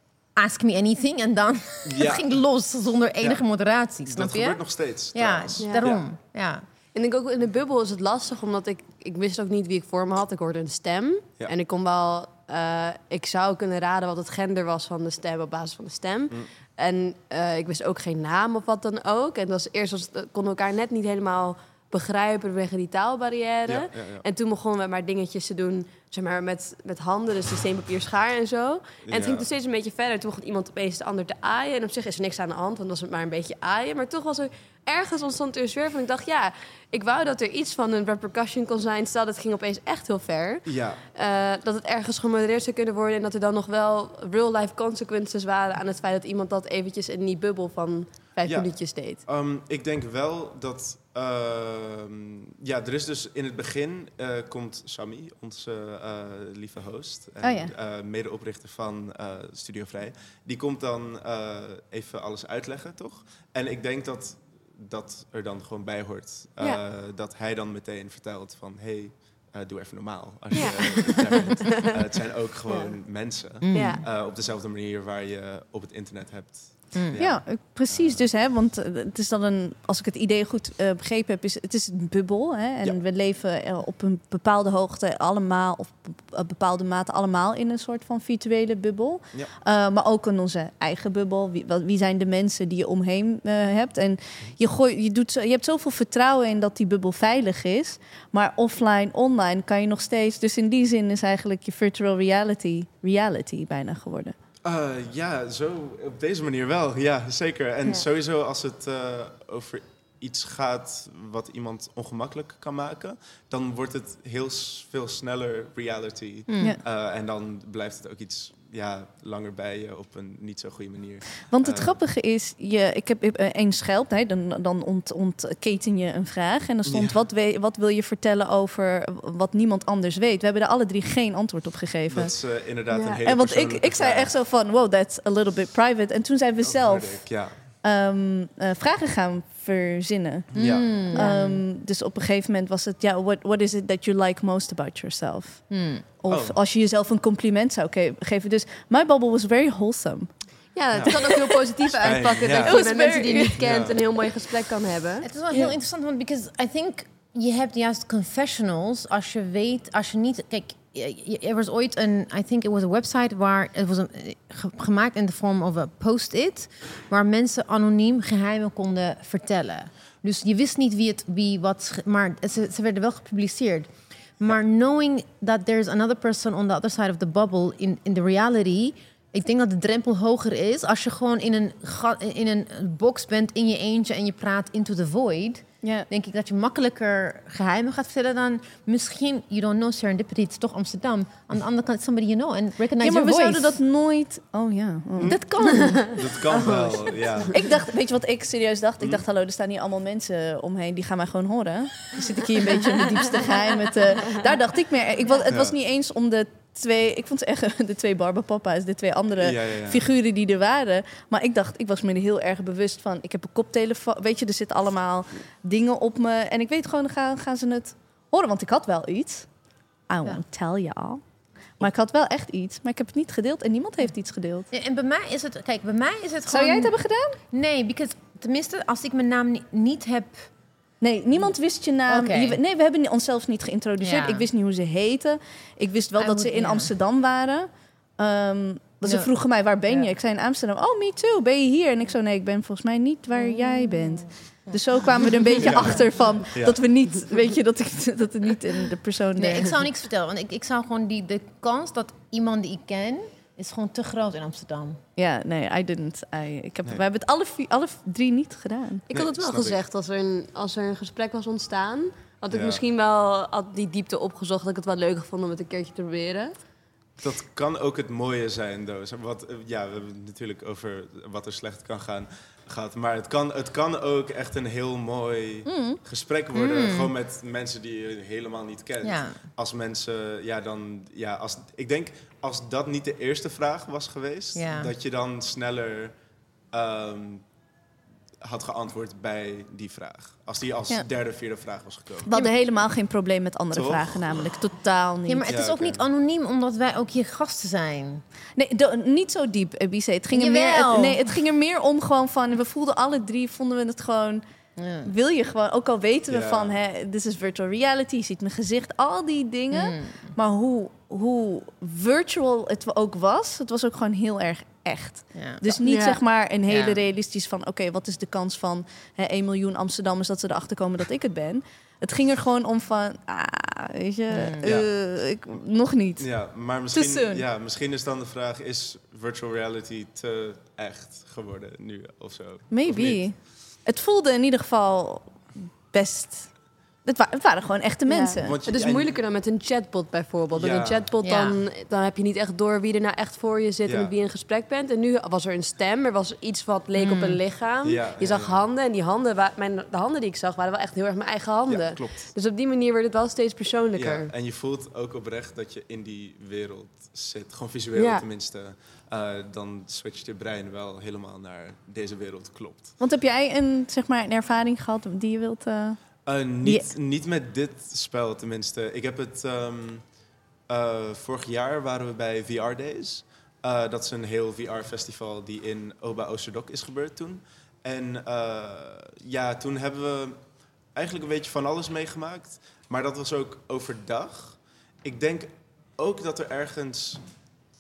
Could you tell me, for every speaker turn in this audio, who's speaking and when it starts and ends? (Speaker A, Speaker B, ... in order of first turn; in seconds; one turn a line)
Speaker A: 0.3-6.7
Speaker B: 1.9-2.4
Speaker B: 3.2-3.5
Speaker B: 4.0-6.1
Speaker C: 5.6-6.0
Speaker C: 6.9-49.2
Speaker B: 23.7-24.2
Speaker B: 29.1-29.5
Speaker B: 40.6-41.0
Speaker B: 48.4-78.3
Speaker D: 57.4-57.7
Speaker C: 70.5-74.1
Speaker A: 73.6-74.0
Speaker A: 76.9-77.2
Speaker D: 77.2-104.4
Speaker B: 104.6-122.0
Speaker A: 116.5-116.8
Speaker D: 121.5-132.3
Speaker B: 126.9-127.2
Speaker B: 132.1-134.4
Speaker C: 132.9-133.2
Speaker D: 133.3-150.8
Speaker B: 136.6-137.6
Speaker B: 140.5-141.0
Speaker A: 140.6-141.6
Speaker C: 141.1-141.4
Speaker A: 145.7-146.0
Speaker B: 146.3-146.6
Speaker C: 150.7-155.3
Speaker B: 150.9-151.3
Speaker B: 151.9-152.8
Speaker D: 152.6-153.6
Speaker B: 153.6-154.0
Speaker A: 155.2-193.8
Speaker D: 185.8-186.1
Speaker D: 193.0-195.8
Speaker B: 195.2-195.5
Speaker A: 195.2-196.2
Speaker C: 195.9-197.5
Speaker B: 196.1-197.6
Speaker D: 197.5-219.5
Speaker B: 199.0-199.3
Speaker B: 205.5-205.8
Speaker B: 209.4-210.1
Speaker D: 220.1-221.2
Speaker D: 221.8-224.7
Speaker A: 224.7-226.9
Speaker D: 226.5-227.4
Speaker A: 227.5-230.5
Speaker D: 231.0-249.8
Speaker A: 232.1-232.6
Speaker A: 234.0-234.5
Speaker A: 236.2-236.9
Speaker A: 239.0-239.3
Speaker A: 239.9-240.1
Speaker A: 243.3-245.5
Speaker B: 245.6-246.8
Speaker A: 249.4-255.0
Speaker D: 255.2-259.1
Speaker B: 259.1-259.9
Speaker C: 259.1-266.6
Speaker B: 262.5-262.9
Speaker B: 267.2-286.2
Speaker D: 275.7-276.0
Speaker A: 276.5-277.1
Speaker A: 279.0-279.4
Speaker A: 284.6-284.9
Speaker B: 286.7-287.5
Speaker B: 288.4-292.3
Speaker D: 292.3-295.5
Speaker B: 293.7-294.6
Speaker A: 295.3-298.2
Speaker B: 295.4-296.0
Speaker D: 298.6-304.4
Speaker A: 300.3-301.2
Speaker A: 304.8-305.1
Speaker D: 305.0-327.4
Speaker B: 306.3-306.8
Speaker A: 309.7-310.3
Speaker A: 315.3-315.8
Speaker C: 315.8-316.2
Speaker A: 316.7-317.0
Speaker A: 324.3-324.7
Speaker B: 324.6-324.9
Speaker B: 326.2-333.4
Speaker D: 332.7-338.6
Speaker C: 338.1-354.3
Speaker B: 338.4-339.2
Speaker B: 340.5-341.1
Speaker A: 341.2-341.6
Speaker B: 343.8-344.1
Speaker D: 347.0-347.4
Speaker B: 347.8-348.7
Speaker B: 351.7-352.3
Speaker B: 353.9-363.0
Speaker C: 357.9-358.3
Speaker D: 363.0-366.9
Speaker B: 366.2-370.1
Speaker B: 370.7-387.2